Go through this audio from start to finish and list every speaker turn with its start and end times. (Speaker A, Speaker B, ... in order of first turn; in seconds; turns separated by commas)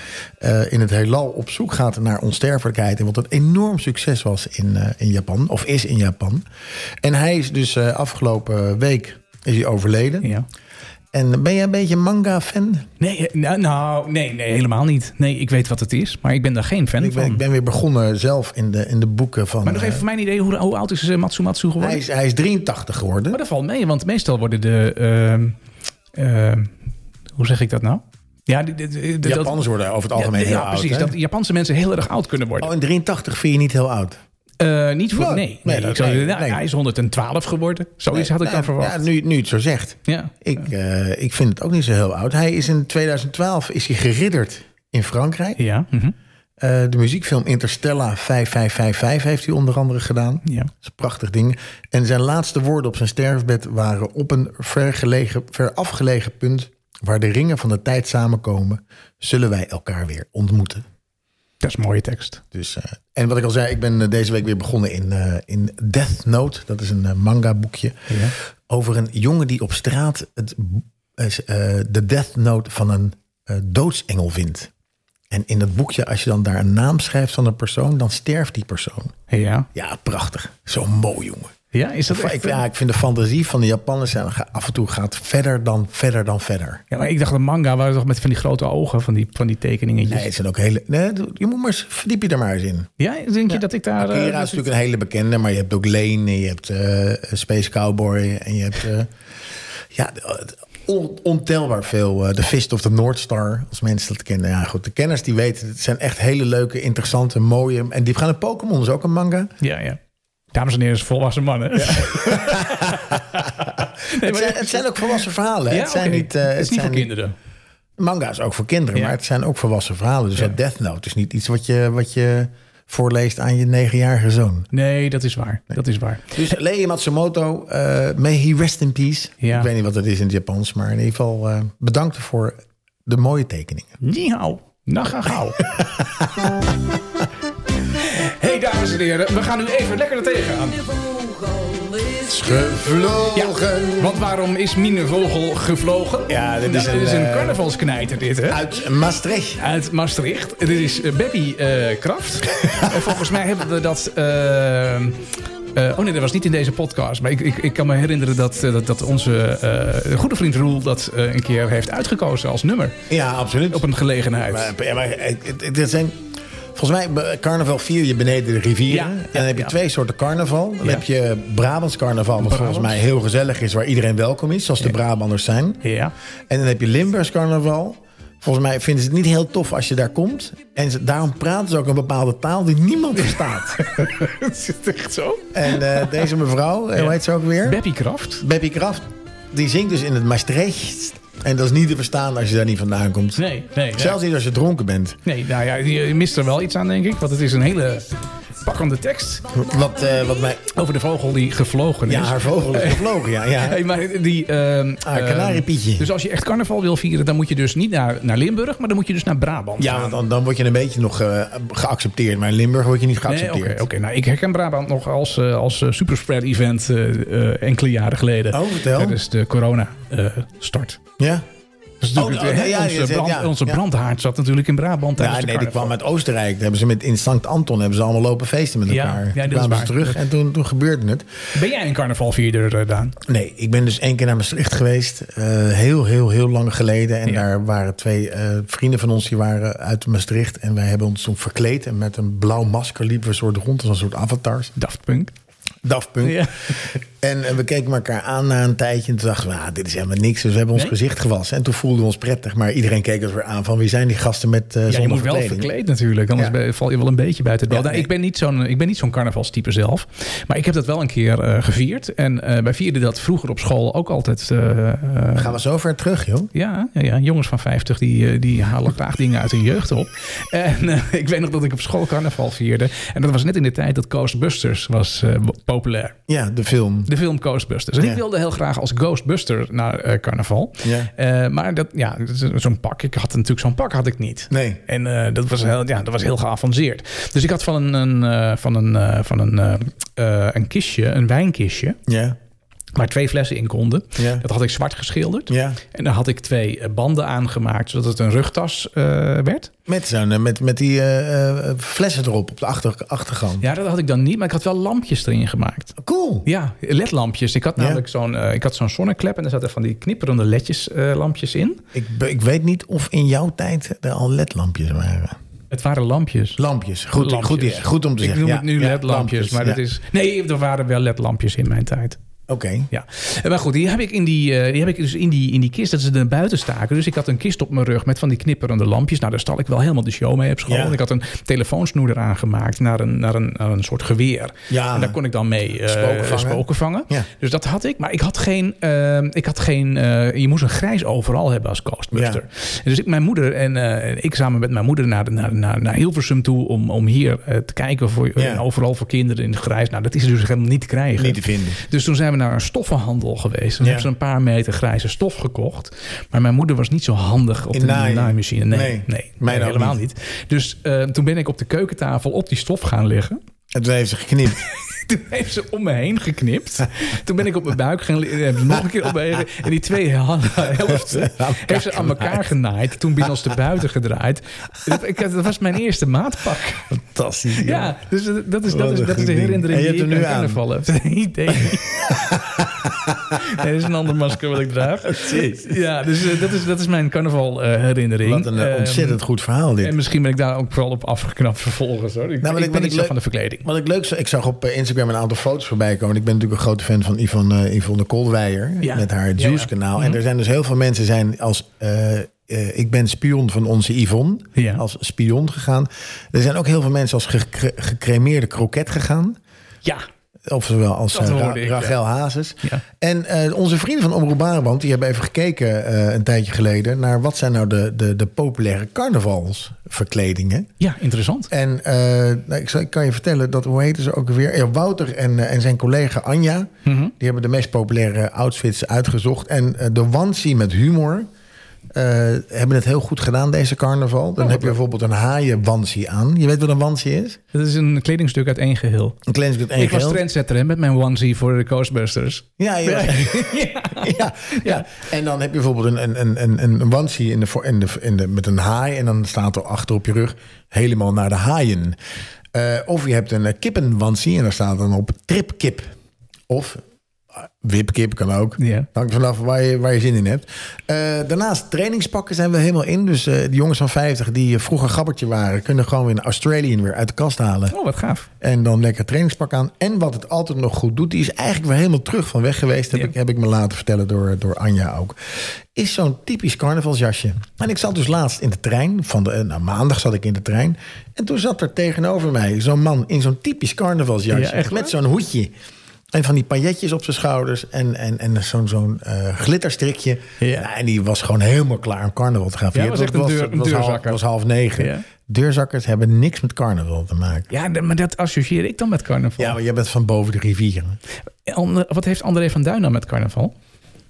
Speaker A: 0.4-6.4, Speaker A: 7.0-10.3, Speaker A: 11.1-12.9, Speaker B: 13.0-17.4, Speaker A: 17.0-20.0, Speaker B: 19.6-22.0, Speaker A: 21.8-23.4, Speaker B: 23.3-25.6, Speaker B: 26.1-26.7, Speaker B: 27.4-29.6, Speaker A: 29.2-31.1, Speaker B: 30.1-32.7, Speaker A: 32.6-34.2, Speaker B: 34.6-39.0, Speaker A: 35.1-36.6, Speaker A: 38.1-45.6, Speaker B: 40.1-40.3, Speaker B: 45.6-46.1, Speaker A: 46.6-60.9, Speaker B: 61.6-62.4, Speaker A: 62.5-74.7, Speaker B: 68.1-68.3, Speaker A: 75.3-79.2, Speaker B: 79.3-79.7, Speaker A: 79.7-81.5, Speaker B: 81.7-82.6, Speaker A: 82.1-86.8, Speaker B: 86.9-90.3, Speaker A: 90.0-92.9, Speaker B: 93.0-94.7, Speaker A: 93.5-99.1, Speaker A: 99.9-109.5, Speaker B: 109.6-110.0, Speaker B: 110.5-117.3, Speaker A: 111.8-117.1, Speaker A: 118.0-124.7, Speaker B: 124.7-126.4, Speaker A: 126.3-133.9, Speaker B: 129.4-129.7, Speaker B: 134.0-135.6, Speaker A: 135.6-136.6, Speaker B: 137.9-141.0, Speaker A: 142.2-144.3, Speaker B: 143.3-148.7, Speaker A: 146.3-147.6, Speaker A: 148.5-149.6, Speaker B: 149.6-163.0, Speaker A: 163.1-163.9, Speaker B: 163.7-164.7, Speaker A: 164.4-166.2, Speaker A: 166.8-175.8, Speaker B: 168.9-169.7, Speaker B: 172.4-173.0, Speaker B: 175.8-176.1, Speaker A: 176.5-183.9, Speaker B: 183.8-186.3, Speaker A: 185.5-187.8, Speaker B: 186.9-188.4, Speaker A: 188.4-195.2, Speaker B: 193.4-194.2, Speaker B: 195.2-199.5, Speaker A: 199.5-200.7, Speaker B: 200.7-210.2, Speaker A: 202.1-203.8, Speaker A: 205.0-206.1, Speaker A: 209.8-213.8, Speaker B: 213.3-221.0, Speaker A: 218.5-219.2, Speaker A: 221.2-221.4, Speaker B: 222.0-225.9, Speaker A: 222.2-223.8, Speaker A: 225.2-231.4, Speaker B: 228.9-230.2, Speaker B: 231.5-233.2, Speaker A: 233.2-244.8, Speaker B: 244.8-245.3, Speaker A: 245.8-255.7, Speaker B: 246.2-246.8, Speaker B: 254.9-265.6, Speaker A: 257.7-258.1, Speaker A: 265.4-266.5, Speaker B: 266.5-276.2, Speaker A: 276.3-277.1, Speaker B: 277.1-292.0, Speaker A: 280.8-281.1, Speaker A: 284.5-284.8, Speaker A: 292.1-292.4, Speaker B: 292.9-299.7, Speaker A: 294.2-294.4, Speaker A: 295.5-295.8, Speaker A: 299.9-303.7, Speaker B: 303.6-311.8, Speaker A: 306.0-306.5, Speaker A: 307.8-308.0, Speaker A: 311.9-315.4, Speaker B: 315.7-316.6, Speaker A: 316.6-319.8, Speaker B: 317.1-322.2, Speaker A: 322.5-322.9, Speaker B: 322.9-363.4, Speaker A: 330.7-331.0, Speaker A: 334.7-335.2, Speaker A: 335.8-337.3, Speaker A: 342.1-342.4, Speaker A: 348.4-348.6, Speaker A: 351.2-351.8, Speaker A: 353.8-354.1, Speaker A: 357.7-360.0, Speaker A: 363.7-364.7, Speaker B: 364.6-376.9, Speaker A: 370.9-372.4, Speaker A: 376.9-377.9, Speaker B: 377.6-382.3, Speaker A: 378.7-380.6, Speaker A: 382.1-383.4, Speaker B: 383.3-389.2, Speaker A: 385.0-385.8, Speaker A: 388.2-389.9, Speaker B: 389.8-393.7, Speaker A: 392.4-409.4, Speaker B: 398.8-400.2, Speaker B: 404.6-404.8, Speaker A: 410.5-420.7, Speaker B: 411.1-412.0, Speaker B: 420.8-421.5, Speaker A: 421.5-431.3, Speaker B: 426.9-427.1, Speaker A: 431.9-437.4, Speaker B: 434.4-434.8, Speaker B: 437.5-439.2, Speaker A: 439.3-440.2, Speaker B: 439.8-444.9, Speaker A: 442.6-452.0, Speaker A: 452.5-455.9, Speaker A: 456.5-456.8, Speaker A: 457.4-467.8, Speaker B: 458.6-458.9, Speaker B: 467.7-468.3, Speaker A: 468.4-485.5, Speaker B: 484.3-484.9, Speaker A: 486.1-497.5, Speaker B: 490.4-490.7, Speaker B: 492.7-494.2, Speaker B: 494.8-495.1, Speaker B: 497.5-499.6, Speaker A: 499.4-501.0, Speaker B: 501.4-503.6